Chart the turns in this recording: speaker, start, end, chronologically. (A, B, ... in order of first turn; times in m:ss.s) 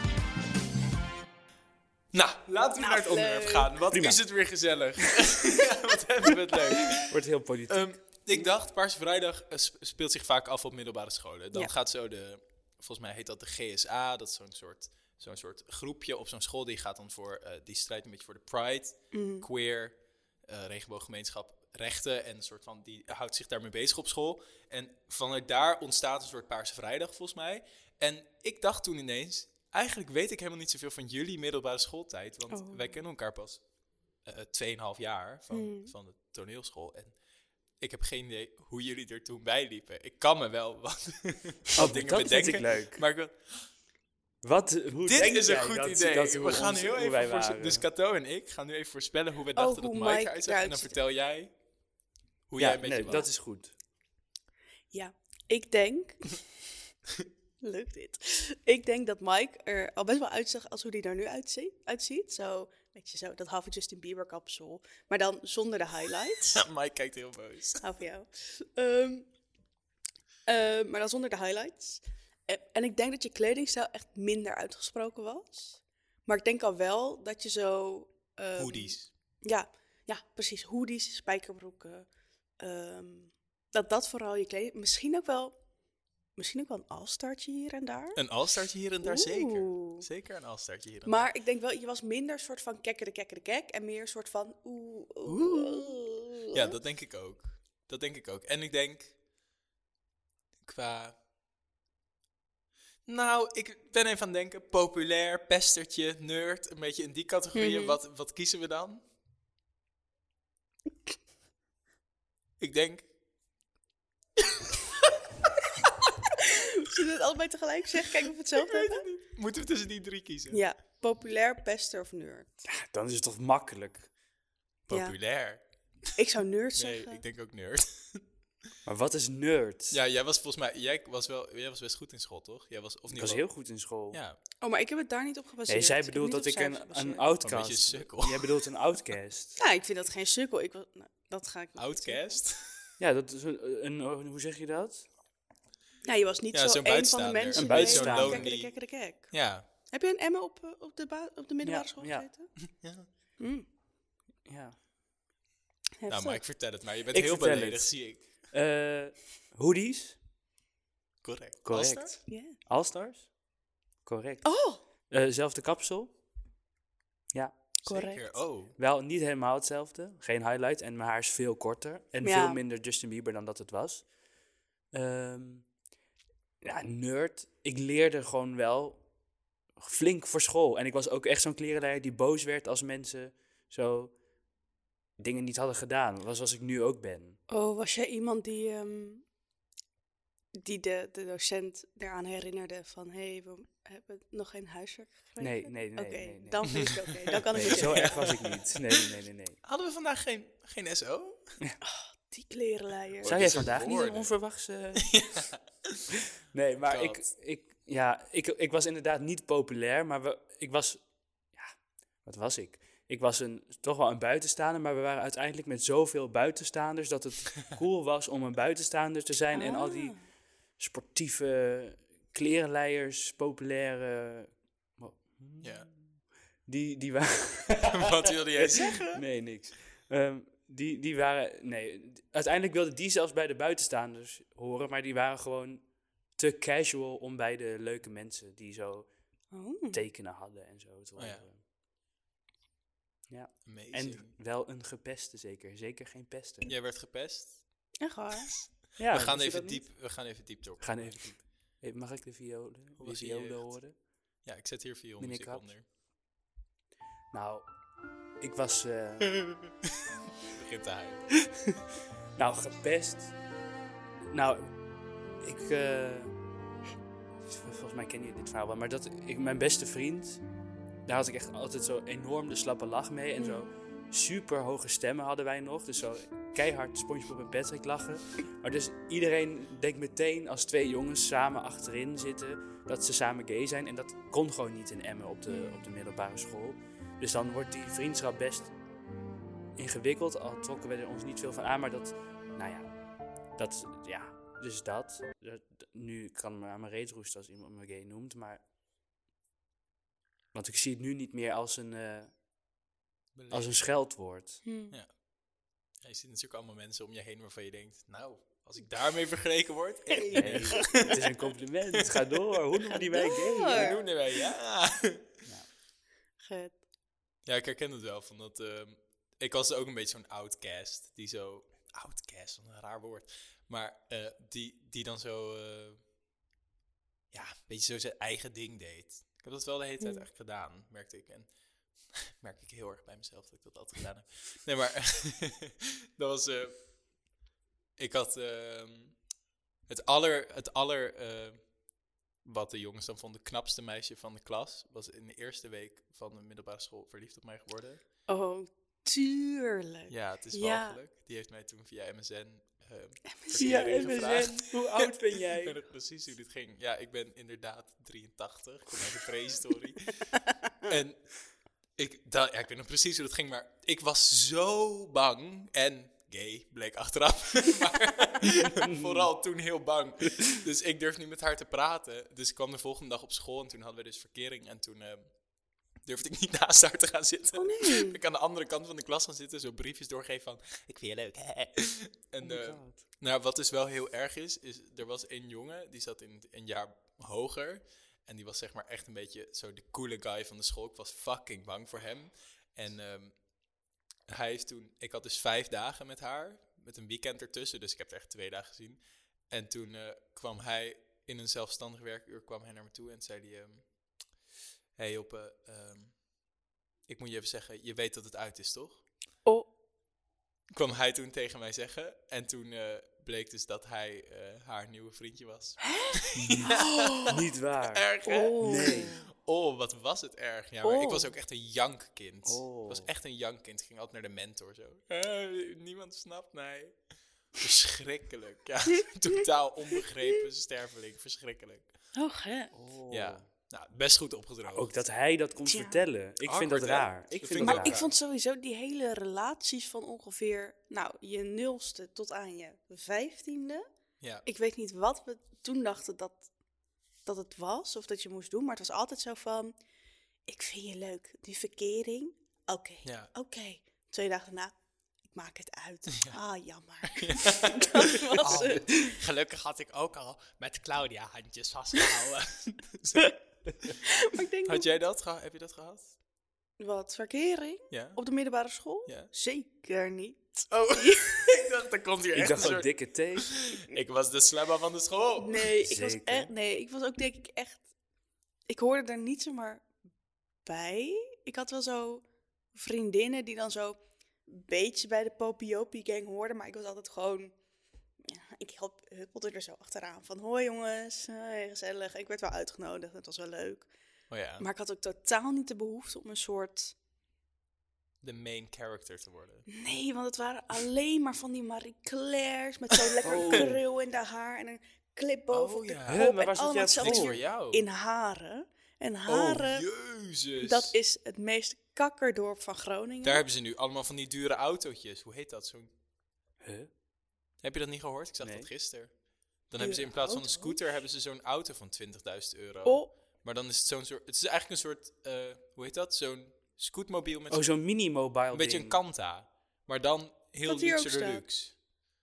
0:02.1-0:07.2 A
0:02.8-0:03.8 B
0:03.9-0:04.2 C
0:07.1-0:08.2 C
0:07.7-0:33.6 A
0:19.1-0:19.5 B
0:32.5-0:32.9 B
0:34.2-0:37.2 A
0:35.5-0:35.9 B
0:37.8-0:43.7 A
0:41.8-0:43.0 C
0:44.4-0:47.9 C
0:45.1-0:51.5 A
0:49.6-0:51.0 B
0:52.5-0:53.2 A
0:52.6-0:53.7 C
0:54.9-0:56.5 B
0:57.6-1:06.6 B
1:06.4-1:07.8 A
1:07.8-1:09.3 B
1:10.5-1:22.1 B
1:18.6-1:19.1 A
1:22.6-1:25.6 B
1:26.4-1:28.2 B
1:28.2-1:31.3 A
1:29.0-1:30.1 B
1:31.1-1:36.8 B
1:35.2-1:36.0 A
1:36.5-1:39.2 A
1:40.6-1:41.2 A
1:43.1-1:49.0 A
1:47.5-1:48.0 B
1:52.6-1:53.1 A
1:56.4-1:59.1 B
1:58.6-2:00.6 A
2:00.5-2:02.6 B
2:02.6-2:04.1 C
2:04.9-2:06.1 A
2:04.9-2:05.2 B
2:06.2-2:07.2 B
2:06.8-2:08.2 A
2:08.9-2:10.0 C
2:09.9-2:13.4 A
2:13.1-2:14.2 C
2:14.1-2:14.4 A
2:14.6-2:17.3 B
2:15.7-2:19.6 C
2:17.4-2:18.7 A
2:19.6-2:22.4 B
2:21.8-2:22.9 A
2:23.0-2:25.1 C
2:26.0-2:32.5 B
2:26.5-2:28.8 A
2:27.6-2:28.5 C
2:29.3-2:29.6 A
2:31.6-2:32.3 C
2:32.6-2:33.1 A
2:33.4-2:33.7 B
2:34.5-2:34.8 C
2:36.0-2:36.4 B
2:36.1-2:38.3 A
2:37.1-2:40.2 C
2:41.2-2:42.2 A
2:41.6-2:43.3 C
2:42.3-2:42.6 B
2:44.0-2:44.5 C
2:44.4-2:44.8 B
2:45.1-2:46.1 C
2:47.8-2:48.8 A
2:47.9-2:48.3 B
2:48.8-2:54.1 C
2:52.2-2:52.6 B
2:54.9-2:55.7 C
2:56.6-2:59.0 C
2:59.8-3:04.2 C
3:05.2-3:07.4 C
3:07.5-3:09.2 B
3:10.5-3:18.4 B
3:15.4-3:16.6 C
3:16.7-3:19.1 A
3:17.5-3:19.6 C
3:19.6-3:21.5 A
3:21.8-3:23.8 B
3:23.2-3:24.3 A
3:23.2-3:25.1 C
3:25.0-3:26.0 A
3:26.5-3:31.0 C
3:26.9-3:27.3 A
3:31.5-3:40.2 C
3:39.5-3:40.2 B
3:40.8-3:59.1 C
3:45.6-3:45.9 A
3:47.8-3:49.2 A
3:59.5-4:00.0 B
3:59.9-4:01.6 C
4:01.2-4:01.4 A
4:03.3-4:06.7 C
4:03.6-4:04.3 A
4:06.6-4:07.9 A
4:08.0-4:08.6 B
4:08.6-4:11.3 A
4:09.0-4:09.9 C
4:10.8-4:14.0 C
4:13.0-4:13.8 A
4:14.4-4:15.8 A
4:15.2-4:15.7 C
4:17.3-4:17.7 C
4:18.4-4:19.4 C
4:19.3-4:21.3 A
4:22.4-4:23.4 C
4:24.3-4:24.8 C
4:25.4-4:26.4 C
4:27.5-4:30.4 C
4:31.1-4:48.8 C
4:33.4-4:33.7 B
4:45.5-4:45.8 B
4:49.8-4:53.0 C
4:53.6-4:58.6 C
5:00.5-5:02.3 C
5:03.4-5:03.8 A
5:03.5-5:04.6 C
5:04.6-5:05.0 B
5:04.9-5:05.2 A
5:06.0-5:11.2 A
5:10.3-5:14.0 C
5:12.0-5:12.4 A
5:12.9-5:14.1 B
5:13.7-5:15.3 A
5:15.4-5:15.7 C
5:16.4-5:16.8 B
5:17.4-5:26.0 A
5:27.3-5:31.5 A
5:32.1-5:36.8 A
5:38.0-5:39.2 A
5:39.9-5:41.7 A
5:42.4-5:48.0 A
5:48.3-5:51.0 B
5:50.1-6:00.2 A
5:53.3-5:54.7 B
5:53.6-5:55.8 C
6:00.8-6:15.4 A
6:08.8-6:09.3 C
6:16.0-6:33.4 A
6:17.6-6:18.2 B
6:22.4-6:23.0 C
6:34.3-6:43.9 A
6:45.0-6:46.2 A
6:47.1-6:49.0 A
6:50.7-6:57.4 A
6:55.8-6:57.3 B
6:56.4-6:58.1 C
6:57.9-7:07.0 A
6:58.2-6:59.2 B
6:58.6-6:59.2 C
7:00.8-7:01.3 B
7:02.5-7:03.1 C
7:07.6-7:11.9 A
7:12.2-7:12.7 B
7:12.7-7:13.5 C
7:13.1-7:14.9 A
7:14.7-7:18.0 C
7:15.7-7:16.0 B
7:16.4-7:18.1 A
7:17.6-7:23.8 B
7:24.4-7:26.5 B
7:27.2-7:29.8 B
7:30.5-7:34.8 B
7:33.0-7:33.3 A
7:35.3-7:39.2 B
7:37.0-7:44.0 A
7:38.4-7:38.9 C
7:44.0-7:44.9 B
7:44.6-7:46.2 A
7:46.8-7:51.7 B
7:47.9-7:48.2 A
7:50.7-7:55.7 A
7:52.3-7:53.5 C
7:55.4-7:57.9 B
7:55.8-7:56.5 C
7:58.7-7:59.8 B
8:00.6-8:07.5 B
8:08.2-8:13.9 B
8:14.3-8:14.7 A
8:14.6-8:17.0 B
8:18.2-8:19.7 A
8:19.7-8:29.9 B
8:23.0-8:23.7 A
8:23.2-8:23.8 C
8:25.5-8:26.3 A
8:26.1-8:27.3 C
8:27.0-8:27.8 A
8:29.3-8:31.0 A
8:30.6-8:33.4 B
8:33.2-8:35.9 A
8:36.6-8:36.9 C
8:37.6-8:39.2 A
8:38.4-8:38.7 C
8:39.7-8:47.7 A
8:39.8-8:40.8 B
8:42.8-8:43.1 B
8:47.5-8:49.0 C
8:48.5-8:51.8 A
8:50.7-8:51.4 B